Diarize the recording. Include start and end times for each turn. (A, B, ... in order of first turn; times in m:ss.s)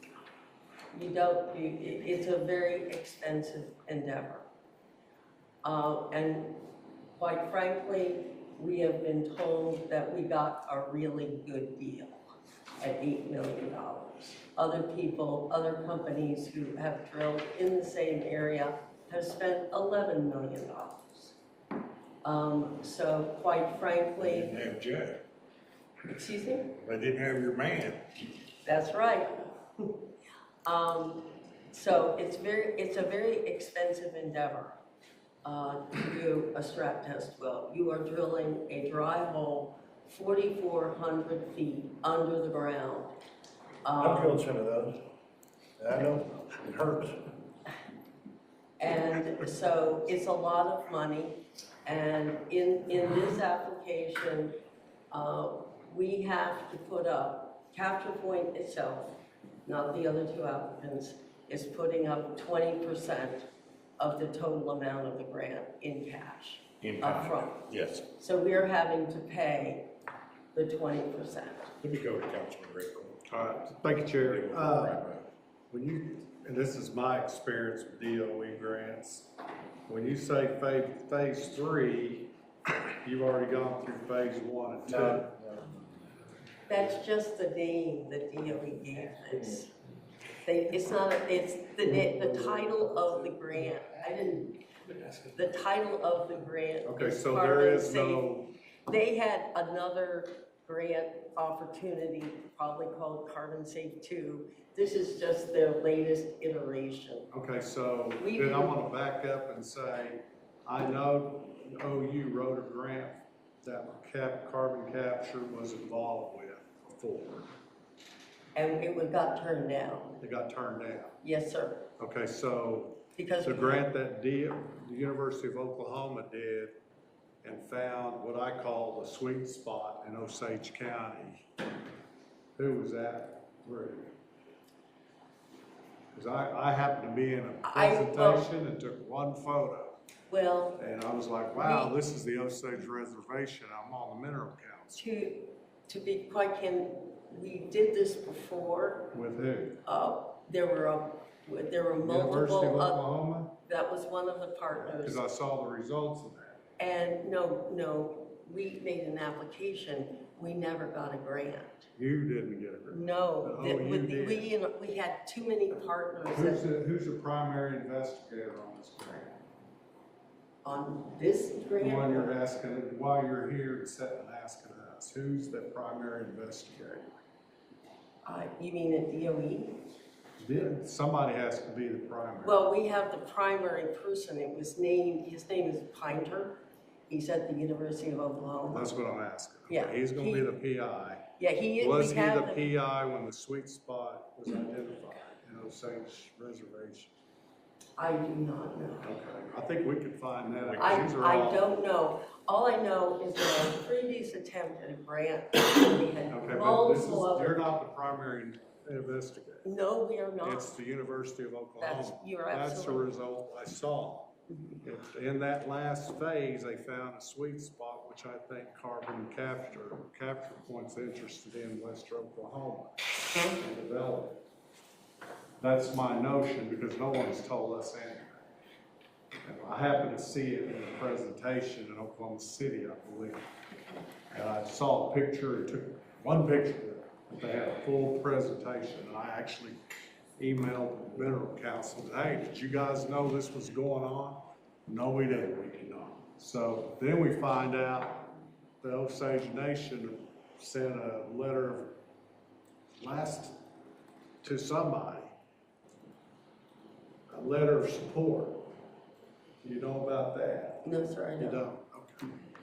0:00.9-0:04.4 A
0:05.6-0:12.3 A
0:12.8-0:21.4 A
0:22.2-0:24.5 A
0:24.3-0:25.2 B
0:26.1-0:26.7 A
0:26.8-0:28.0 B
0:28.6-0:30.0 A
0:30.6-0:34.8 A
0:35.4-0:43.2 A
0:43.8-0:44.4 A
0:44.0-0:45.0 C
0:45.8-0:47.2 C
0:48.8-0:54.6 A
0:55.1-1:03.5 A
1:04.0-1:09.9 A
1:06.8-1:08.1 B
1:10.5-1:11.7 A
1:11.8-1:13.5 B
1:13.3-1:15.0 D
1:14.1-1:15.2 B
1:15.7-1:19.3 D
1:19.9-1:22.3 D
1:23.0-1:25.3 D
1:24.9-1:25.7 C
1:26.7-1:29.7 A
1:30.4-1:34.6 A
1:32.1-1:33.1 C
1:34.9-1:35.3 C
1:35.3-1:47.3 A
1:36.8-1:38.5 D
1:47.3-1:57.5 D
1:48.2-1:48.7 A
1:58.6-2:00.2 A
2:00.2-2:01.2 D
2:01.2-2:01.9 A
2:02.0-2:06.7 D
2:03.2-2:03.8 A
2:07.4-2:11.4 D
2:12.6-2:14.1 D
2:16.1-2:20.0 D
2:17.6-2:18.5 A
2:20.3-2:20.8 A
2:20.8-2:25.0 D
2:21.6-2:21.9 A
2:25.0-2:29.1 A
2:29.1-2:29.8 D
2:29.8-2:33.0 A
2:32.0-2:33.5 D
2:33.6-2:35.2 A
2:34.8-2:36.6 D
2:36.8-2:41.9 A
2:42.0-2:44.5 D
2:42.9-2:46.7 A
2:46.3-2:49.3 D
2:50.6-2:52.3 A
2:51.8-2:57.1 D
2:58.2-2:59.8 A
3:00.4-3:02.7 D
3:02.4-3:06.6 A
3:07.1-3:08.9 A
3:08.7-3:17.1 D
3:09.7-3:10.5 A
3:11.4-3:12.6 A
3:18.0-3:19.1 A
3:19.0-3:21.7 D
3:20.8-3:27.6 A
3:26.3-3:29.7 D
3:29.6-3:30.7 A
3:30.4-3:44.4 D
3:31.8-3:33.1 A
3:45.6-3:48.4 D
3:49.4-3:53.4 D
3:54.3-3:59.8 D
4:00.4-4:08.3 D
4:08.8-4:11.9 D
4:13.0-4:13.6 D
4:14.4-4:15.4 D
4:17.3-4:18.7 D
4:19.6-4:20.8 D
4:20.8-4:21.6 A
4:21.4-4:22.3 D